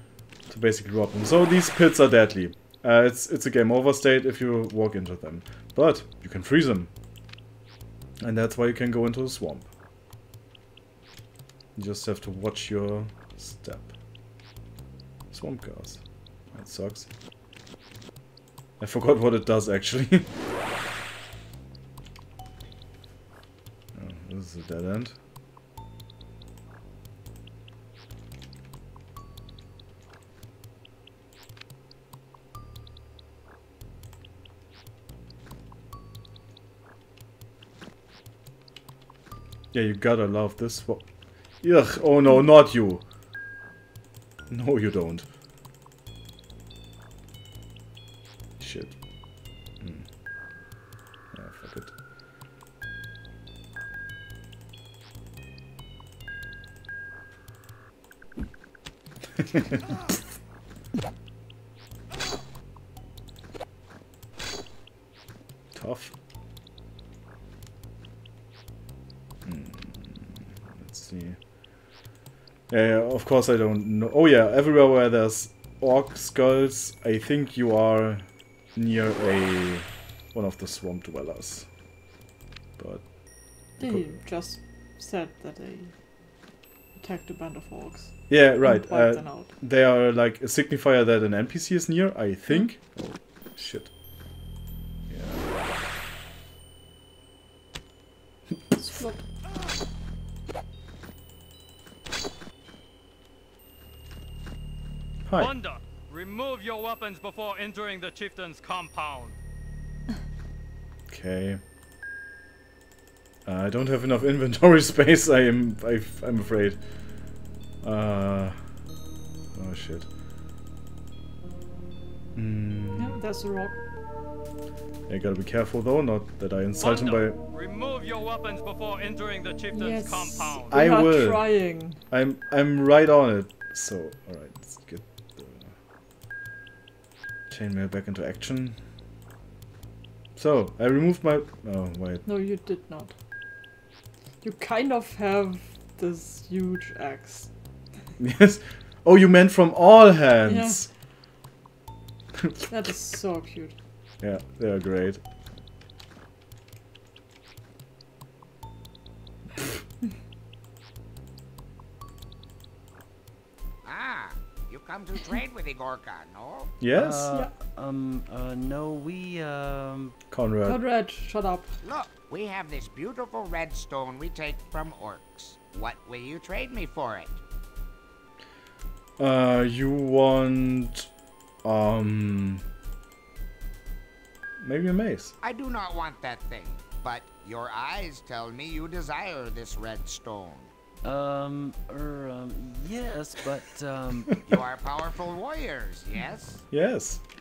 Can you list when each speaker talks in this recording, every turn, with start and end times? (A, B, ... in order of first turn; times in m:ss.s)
0:00.5-0:06.9 A
0:08.2-0:09.7 A
0:11.8-0:13.9 A
0:15.3-0:16.0 A
0:16.5-0:17.1 A
0:18.8-0:20.3 A
0:24.0-0:25.2 A
0:39.7-0:41.0 A
0:41.6-0:43.0 A
0:44.5-0:45.3 A
0:48.6-0:49.0 A
0:49.8-0:50.1 A
0:51.3-0:51.9 A
1:05.7-1:06.1 A
1:09.4-1:11.4 A
1:12.7-1:21.7 A
1:22.8-1:23.1 A
1:23.8-1:24.2 A
1:23.8-1:26.0 B
1:27.0-1:29.5 B
1:28.3-1:33.9 A
1:35.1-1:35.5 A
1:38.8-1:39.2 B
1:45.3-1:45.5 A
1:45.3-1:49.4 C
1:51.1-1:51.6 A
1:53.5-1:56.8 A
1:57.8-1:58.6 A
1:59.5-2:00.1 A
2:02.4-2:03.2 A
2:03.0-2:03.8 B
2:05.1-2:07.4 A
2:06.8-2:10.8 C
2:09.7-2:12.0 B
2:10.7-2:11.5 A
2:12.1-2:15.7 A
2:17.5-2:18.8 A
2:20.4-2:22.2 A
2:22.3-2:23.1 B
2:24.4-2:27.5 B
2:28.2-2:30.9 A
2:30.5-2:30.9 B
2:32.7-2:33.7 B
2:34.2-2:35.2 A
2:43.8-2:46.7 D
2:46.8-2:47.2 A
2:46.9-2:50.2 E
2:50.3-2:50.8 A
2:50.6-2:51.7 B
2:51.8-2:57.4 D
2:59.2-3:01.1 A
3:01.6-3:02.6 A
3:04.6-3:05.3 A
3:05.4-3:10.7 D
3:11.0-3:14.3 E
3:14.4-3:16.6 D
3:16.7-3:17.2 A